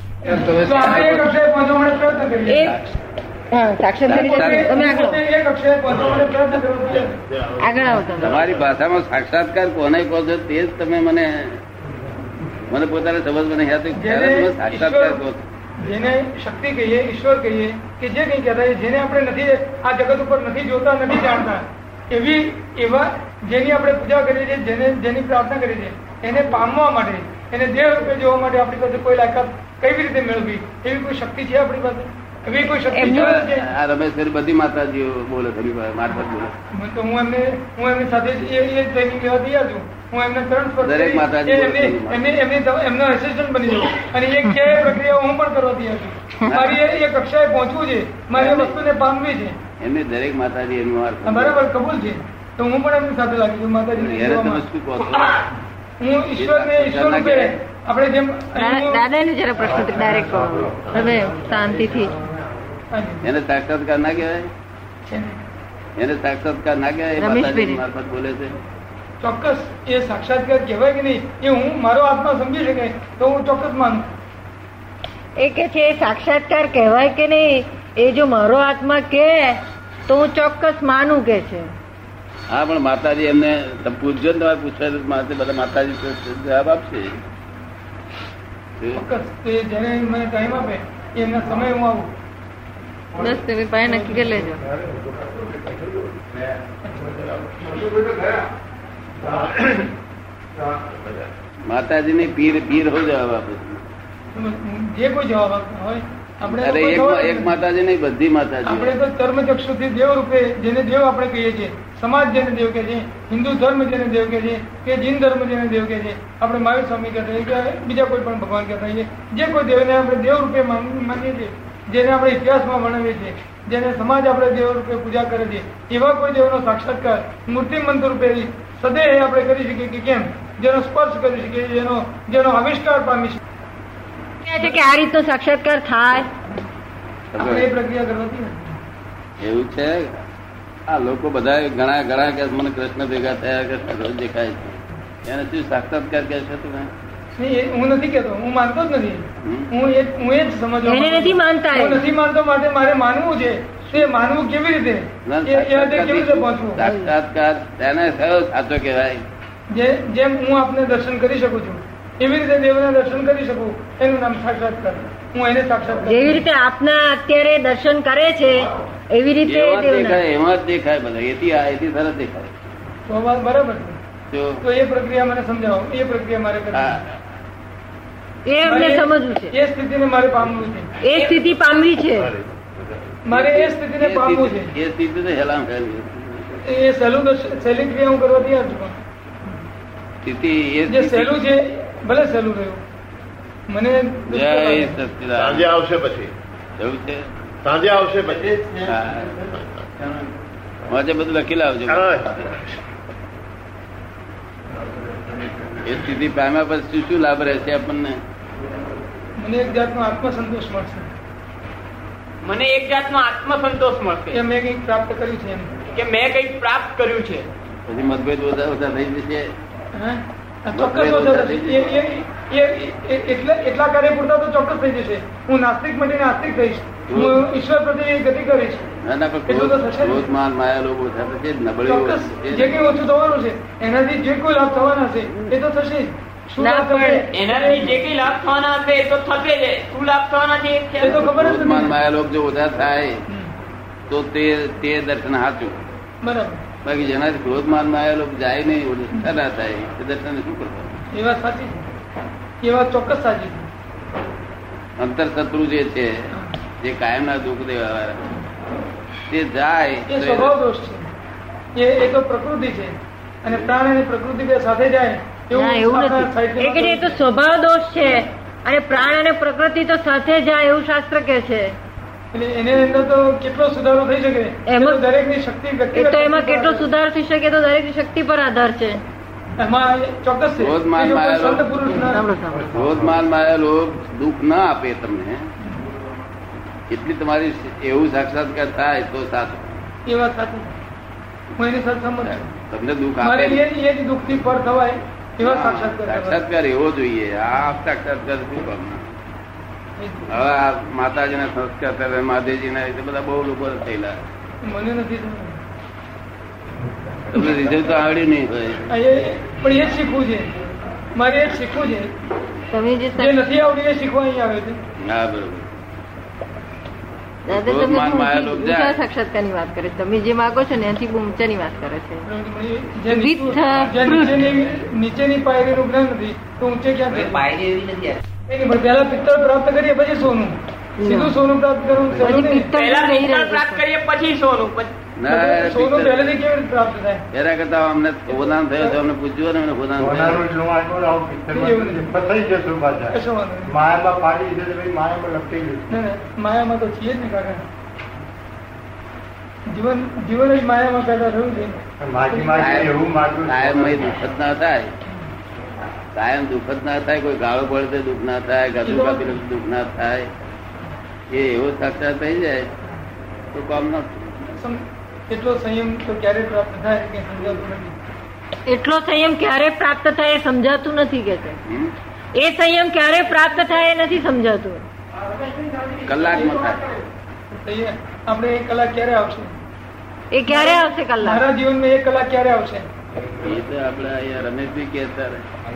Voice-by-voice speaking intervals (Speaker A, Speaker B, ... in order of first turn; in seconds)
Speaker A: 0.2-1.3, 4.0-4.8, 8.2-11.6, 12.7-15.4, 33.0-36.5, 40.8-42.2, 46.5-46.8, 48.4-48.8, 49.8-51.6, 54.0-55.4, 56.4-57.6, 63.2-64.5, 66.0-68.6, 82.5-87.1, 100.7-103.8, 106.5-109.0, 137.3-137.7, 139.4-140.2, 140.9-146.9, 149.4-149.7, 155.2-159.2, 169.5-172.6, 174.3-174.6, 176.7-177.0, 182.1-186.6, 190.2-191.4, 194.3-195.8, 196.8-197.3, 198.8-199.4, 200.9-202.4, 205.8-208.2, 217.9-219.5, 220.7-222.0, 227.1-227.4, 229.0-232.9, 241.2-243.2, 244.1-245.8, 246.8-250.9, 255.0-256.3, 256.8-258.3, 259.3-260.6, 280.6-281.9, 282.7-285.5, 286.9-289.6, 292.2-293.6, 295.4-299.0, 300.3-304.2, 307.3-308.8, 315.0-315.7, 317.5-319.1, 335.2-336.4, 337.3-340.5, 352.5-354.9, 356.1-360.3, 361.3-362.7, 363.5-364.2, 371.7-371.9, 376.0-376.9, 383.4-385.4
Speaker B: 0.3-2.8, 4.1-7.2, 13.9-15.2, 15.8-33.7, 36.7-49.6, 51.2-54.6, 56.0-59.1, 62.9-63.2, 65.1-65.4, 69.2-74.1, 88.9-92.1, 93.8-94.5, 96.8-97.2, 104.3-107.6, 108.6-133.4, 137.4-138.8, 147.3-156.9, 159.7-166.5, 173.1-174.0, 174.6-177.0, 178.6-180.9, 183.3-184.7, 186.6-189.0, 190.9-192.8, 193.7-195.0, 209.4-211.1, 214.3-215.8, 219.9-228.8, 229.5-230.3, 231.8-238.0, 241.0-242.0, 243.3-243.5, 246.2-246.6, 251.1-251.9, 252.6-253.7, 260.1-261.1, 261.8-267.2, 272.3-276.9, 279.6-282.3, 290.1-290.8, 291.6-292.5, 293.2-296.4, 300.0-300.5, 304.6-305.6, 308.9-310.5, 311.1-312.1, 313.1-314.8, 322.2-327.5, 328.5-332.8, 335.3-337.2, 338.3-339.0, 341.5-342.2, 343.1-343.8, 345.9-347.6, 349.7-352.9, 358.8-359.4, 364.4-368.0, 375.9-376.7, 377.5-379.6, 380.4-382.9
Speaker C: 2.5-2.8, 3.5-5.2, 7.6-8.4, 32.9-33.4, 58.5-62.2, 67.2-67.8, 75.4-81.7, 93.2-94.7, 134.4-136.3, 150.8-152.0, 166.1-170.2, 178.5-179.5, 181.0-182.3, 236.6-237.3, 265.5-271.8, 274.7-275.1, 275.9-279.0, 281.9-282.7, 312.7-313.4, 317.5-322.3, 323.1-324.5, 331.0-331.4, 332.2-333.9, 368.7-371.6, 372.3-374.8, 380.3-381.5
Speaker D: 7.3-8.6, 59.6-62.0, 195.4-196.3, 197.7-198.7, 201.9-202.3, 282.5-283.2, 340.0-343.1, 343.7-345.9, 352.0-354.2
Speaker E: 212.4-214.4, 215.9-217.5, 237.3-241.2, 332.3-335.0